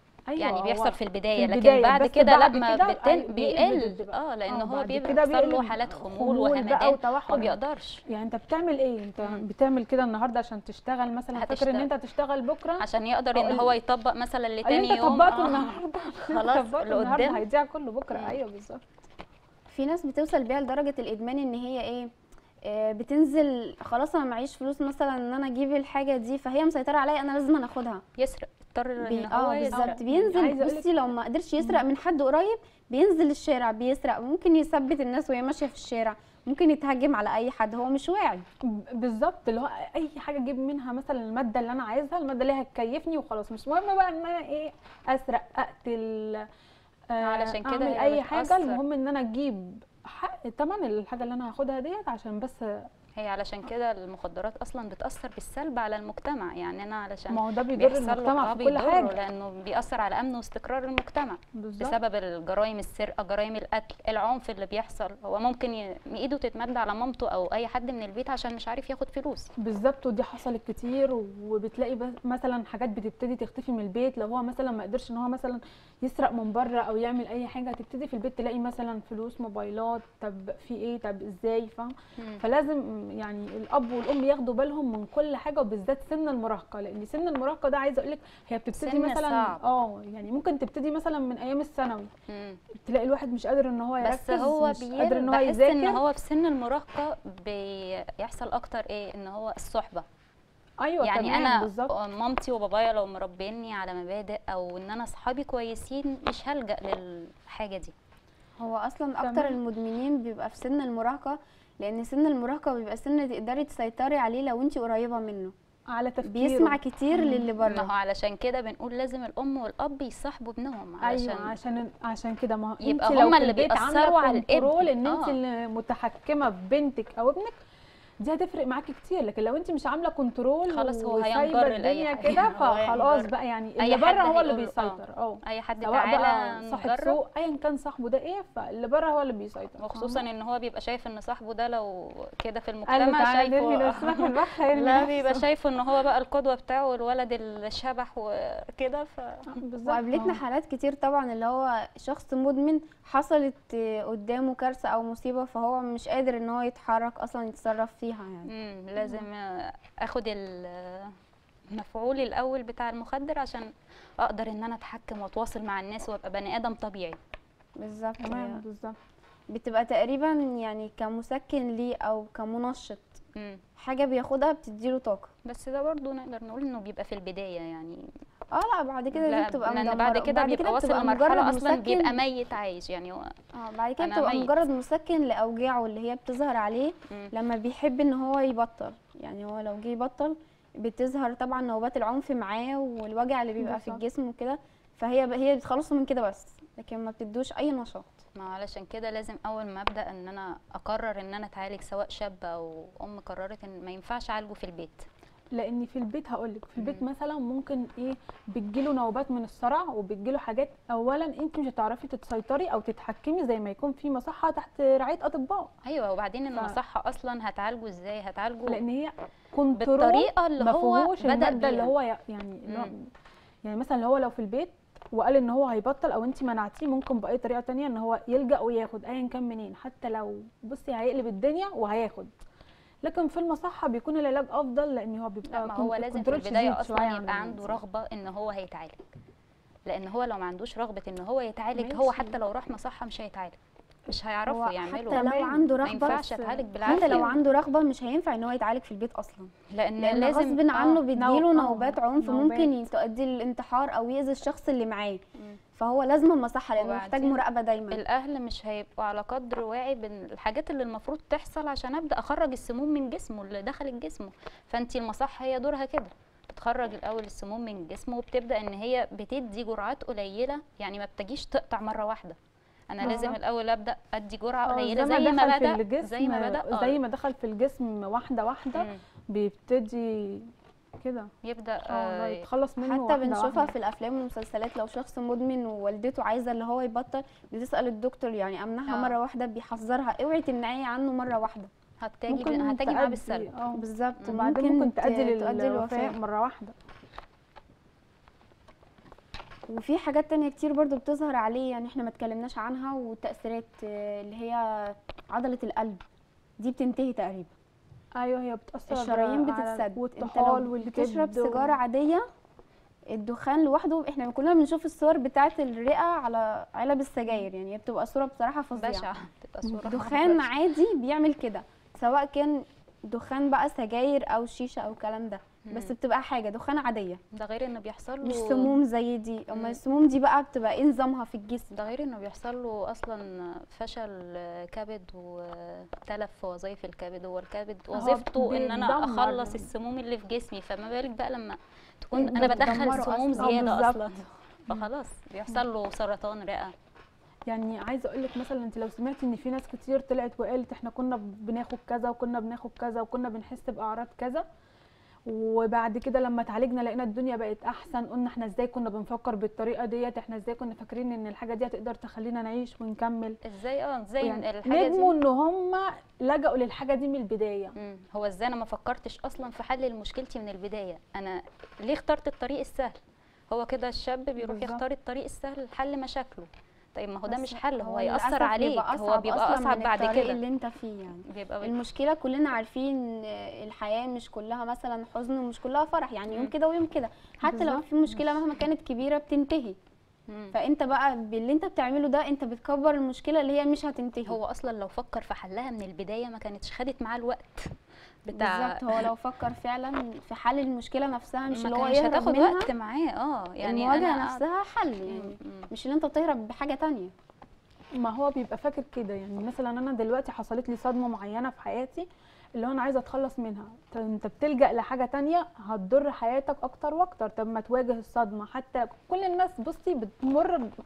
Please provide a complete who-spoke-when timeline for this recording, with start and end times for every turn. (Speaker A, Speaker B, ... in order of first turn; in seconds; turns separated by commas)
Speaker A: 0.3-13.8, Speaker B: 0.4-8.0, Speaker B: 11.3-11.9, Speaker B: 12.8-17.4, Speaker A: 14.6-18.8, Speaker C: 19.7-22.1, Speaker C: 22.6-28.0, Speaker B: 28.2-30.3, Speaker C: 29.0-38.5, Speaker A: 29.7-30.9, Speaker A: 38.9-46.5, Speaker A: 47.1-52.9, Speaker B: 47.2-48.8, Speaker B: 53.2-69.5, Speaker A: 57.3-59.2, Speaker A: 61.5-62.0, Speaker A: 69.6-92.1, Speaker B: 88.7-89.6, Speaker B: 92.3-92.6, Speaker A: 92.8-96.0, Speaker B: 94.0-100.0, Speaker A: 100.8-101.9, Speaker B: 101.0-107.9, Speaker C: 108.6-115.5, Speaker A: 109.2-109.6, Speaker A: 115.9-117.5, Speaker C: 116.2-117.9, Speaker B: 117.6-121.5, Speaker A: 121.0-127.5, Speaker B: 122.8-125.3, Speaker A: 128.2-140.2, Speaker B: 130.7-137.2, Speaker B: 139.8-149.6, Speaker A: 142.8-145.5, Speaker A: 149.5-150.4, Speaker C: 149.8-158.5, Speaker B: 158.5-161.1, Speaker B: 161.7-167.2, Speaker C: 167.8-168.6, Speaker A: 168.2-169.0, Speaker C: 169.5-173.1, Speaker B: 173.3-173.6, Speaker C: 173.8-175.3, Speaker B: 175.4-178.1, Speaker C: 178.5-182.2, Speaker B: 179.1-183.2, Speaker C: 183.5-198.2, Speaker B: 184.0-184.5, Speaker A: 193.6-194.0, Speaker B: 198.3-205.1, Speaker A: 205.5-215.7, Speaker B: 215.8-218.8, Speaker A: 218.7-223.0, Speaker B: 219.8-221.9, Speaker A: 223.6-232.3, Speaker A: 233.0-237.8, Speaker B: 235.5-239.1, Speaker B: 239.8-243.6, Speaker C: 241.8-242.3, Speaker B: 244.1-245.3, Speaker A: 244.5-247.4, Speaker C: 244.8-246.2, Speaker B: 245.8-247.3, Speaker C: 246.8-255.2, Speaker B: 249.7-251.0, Speaker A: 251.1-252.7, Speaker C: 255.7-258.0, Speaker B: 256.8-272.4, Speaker B: 272.9-276.9, Speaker A: 273.0-273.4, Speaker A: 274.6-281.3, Speaker B: 281.4-282.4, Speaker A: 281.9-283.7, Speaker C: 282.8-291.7, Speaker B: 288.9-289.2, Speaker B: 292.0-293.5, Speaker A: 292.3-296.7, Speaker C: 293.8-296.1, Speaker C: 299.7-306.0, Speaker C: 306.6-307.5, Speaker A: 308.2-311.7, Speaker C: 308.9-312.2, Speaker C: 313.1-319.1, Speaker B: 318.8-320.5, Speaker C: 319.8-327.2, Speaker B: 327.3-328.8, Speaker C: 328.2-331.7, Speaker B: 329.5-329.8, Speaker B: 331.7-346.7, Speaker A: 337.9-339.6, Speaker A: 342.1-344.1, Speaker C: 342.4-343.7, Speaker A: 347.5-354.4, Speaker A: 355.3-363.4, Speaker B: 363.4-365.1, Speaker A: 364.2-367.7, Speaker B: 367.8-373.0, Speaker B: 373.5-380.4, Speaker A: 374.4-374.8, Speaker C: 377.3-389.8, Speaker B: 381.3-381.8, Speaker A: 387.4-387.9, Speaker B: 388.1-388.3, Speaker B: 390.3-390.5, Speaker C: 390.5-394.4, Speaker B: 394.2-397.7, Speaker B: 398.3-399.1, Speaker C: 398.3-402.7, Speaker B: 401.5-404.4, Speaker C: 403.6-407.1, Speaker B: 405.1-405.7, Speaker A: 408.0-420.7